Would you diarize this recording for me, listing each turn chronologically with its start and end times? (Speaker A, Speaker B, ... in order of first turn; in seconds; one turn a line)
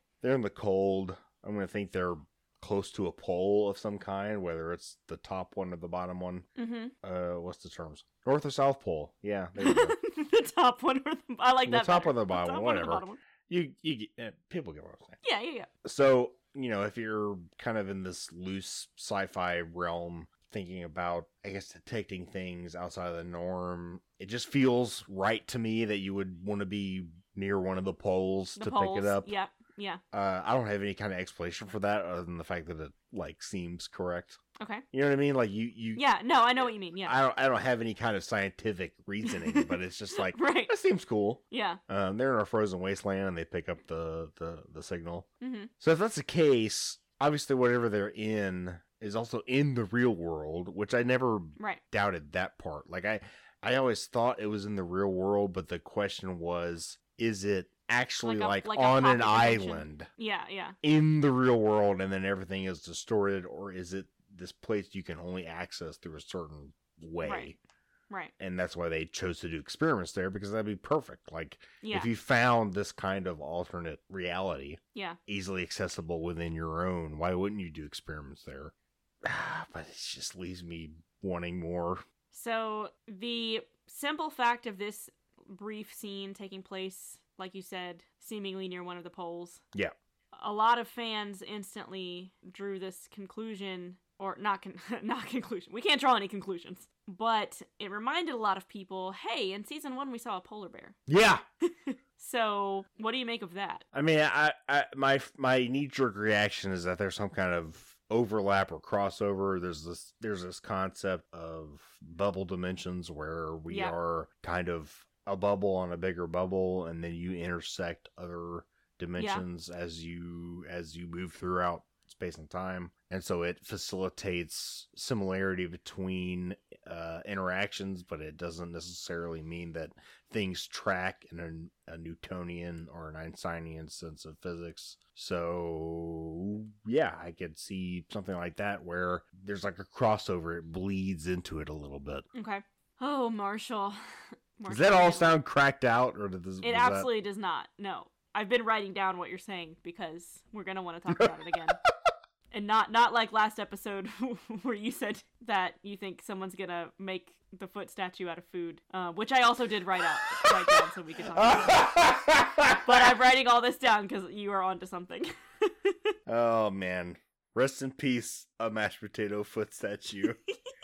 Speaker A: 0.2-6.5
Speaker B: 6.6-6.9
Speaker A: 7.0-10.0
Speaker B: 9.6-13.2
Speaker A: 11.7-15.2
Speaker B: 15.2-15.7
Speaker A: 15.8-29.3
Speaker B: 28.6-30.0
Speaker A: 30.1-34.4
Speaker B: 34.6-34.8
Speaker A: 34.9-36.0
Speaker B: 35.9-37.2
Speaker A: 36.6-45.3
Speaker B: 39.2-40.7
Speaker B: 41.5-41.8
Speaker B: 45.4-45.7
Speaker A: 45.8-60.1
Speaker B: 58.2-60.8
Speaker A: 60.8-67.6
Speaker B: 67.2-67.5
Speaker A: 68.4-78.7
Speaker B: 71.8-72.1
Speaker B: 74.9-75.2
Speaker A: 79.2-82.0
Speaker B: 82.3-89.6
Speaker B: 90.3-101.0
Speaker A: 101.1-101.4
Speaker B: 101.6-103.8
Speaker A: 103.9-142.3
Speaker B: 113.7-114.0
Speaker B: 119.2-119.4
Speaker B: 142.3-144.0
Speaker B: 144.6-145.4
Speaker A: 144.7-147.1
Speaker B: 146.6-151.8
Speaker B: 152.5-161.9
Speaker A: 161.4-163.1
Speaker B: 162.8-166.1
Speaker A: 166.3-170.4